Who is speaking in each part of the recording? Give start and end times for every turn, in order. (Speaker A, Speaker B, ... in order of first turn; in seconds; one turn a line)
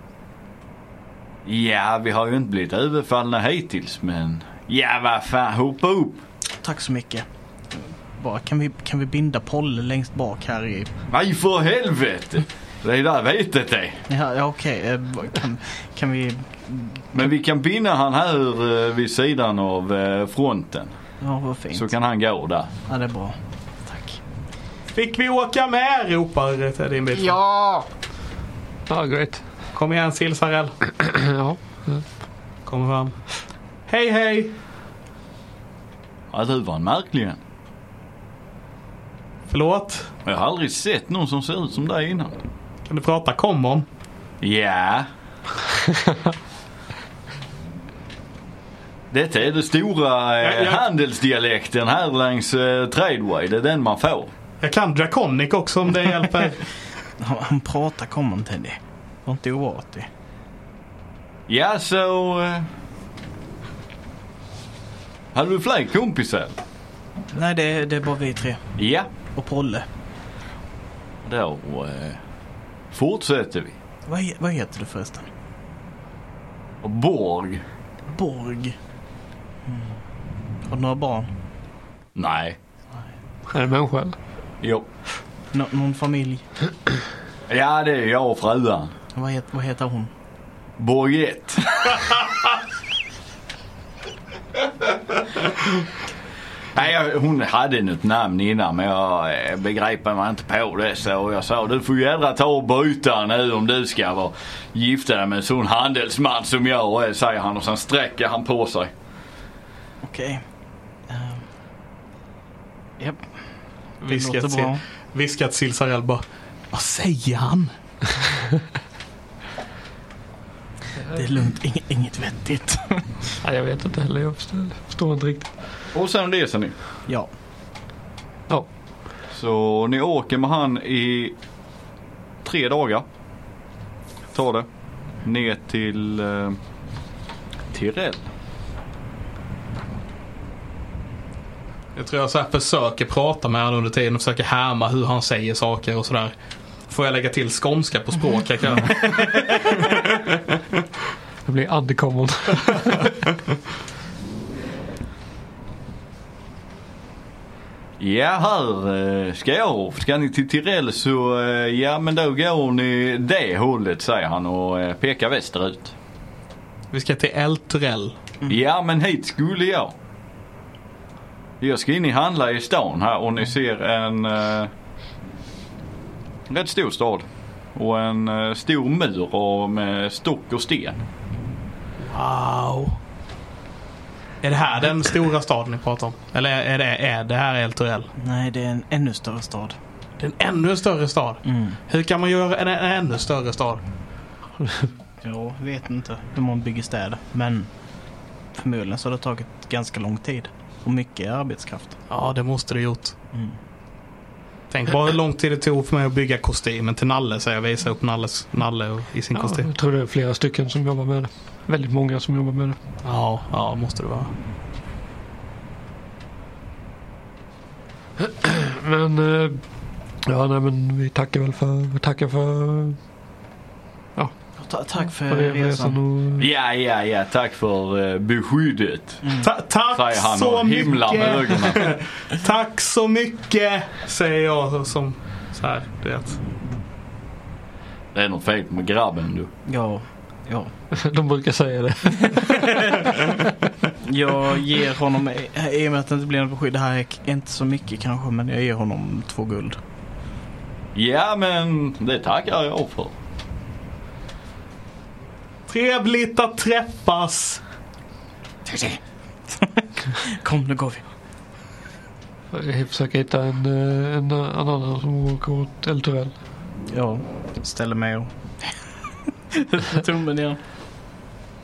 Speaker A: 1.4-6.2
Speaker B: 6.6-10.9
Speaker A: 11.1-14.0
Speaker B: 14.1-17.1
Speaker A: 17.1-20.9
Speaker B: 21.2-21.9
Speaker A: 21.7-22.7
Speaker B: 22.9-24.2
Speaker C: 24.9-27.4
Speaker B: 27.2-27.9
Speaker D: 28.9-29.4
Speaker C: 29.7-30.8
Speaker D: 30.9-32.0
Speaker C: 32.7-33.2
Speaker C: 33.9-34.5
Speaker A: 36.3-37.4
Speaker C: 39.5-40.1
Speaker A: 40.2-42.4
Speaker C: 42.9-43.9
Speaker A: 44.4-45.1
Speaker A: 49.1-54.3
Speaker C: 50.4-50.8
Speaker C: 54.6-56.6
Speaker B: 57.2-60.1
Speaker A: 61.5-62.7
Speaker A: 65.3-66.6
Speaker B: 67.3-68.6
Speaker A: 68.8-69.1
Speaker B: 69.3-69.9
Speaker A: 71.2-72.2
Speaker A: 72.9-73.8
Speaker B: 74.1-75.3
Speaker A: 76.8-77.6
Speaker B: 78.1-78.8
Speaker B: 79.7-79.9
Speaker B: 80.6-81.3
Speaker A: 82.2-82.6
Speaker D: 83.5-84.2
Speaker B: 85.5-86.4
Speaker A: 87.5-88.9
Speaker B: 89.2-90.1
Speaker A: 90.8-92.3
Speaker A: 96.8-108.9
Speaker B: 110.0-110.5
Speaker B: 111.1-111.5
Speaker B: 113.0-113.3
Speaker B: 114.0-114.8
Speaker C: 114.0-117.7
Speaker B: 121.1-123.1
Speaker D: 123.4-125.5
Speaker A: 125.9-126.8
Speaker A: 129.3-131.3
Speaker A: 132.4-133.1
Speaker A: 134.3-134.7
Speaker A: 135.2-136.6
Speaker A: 137.7-138.3
Speaker C: 141.9-146.3
Speaker C: 146.9-150.2
Speaker D: 151.5-153.3
Speaker A: 158.0-165.9
Speaker C: 166.9-168.2
Speaker A: 168.5-169.9
Speaker A: 171.6-174.7
Speaker A: 176.5-181.0
Speaker C: 182.0-183.0
Speaker C: 184.4-188.1
Speaker B: 188.2-189.8
Speaker C: 190.2-193.8
Speaker B: 191.4-191.8
Speaker B: 195.2-197.8
Speaker B: 198.5-202.0
Speaker C: 202.1-203.2
Speaker C: 204.7-209.7
Speaker D: 209.3-212.8
Speaker C: 213.0-214.3
Speaker D: 218.2-219.7
Speaker D: 220.2-223.0
Speaker B: 224.6-226.0
Speaker D: 225.2-226.5
Speaker A: 226.4-229.2
Speaker B: 229.2-229.5
Speaker C: 229.4-236.4
Speaker A: 229.9-232.0
Speaker A: 238.1-239.5
Speaker B: 239.7-240.7
Speaker D: 241.0-243.4
Speaker B: 242.4-243.1
Speaker B: 244.0-249.8
Speaker A: 250.9-253.2
Speaker C: 255.7-257.6
Speaker B: 258.7-259.0
Speaker B: 259.6-261.0
Speaker D: 262.5-266.4
Speaker B: 266.9-268.8
Speaker B: 269.5-270.6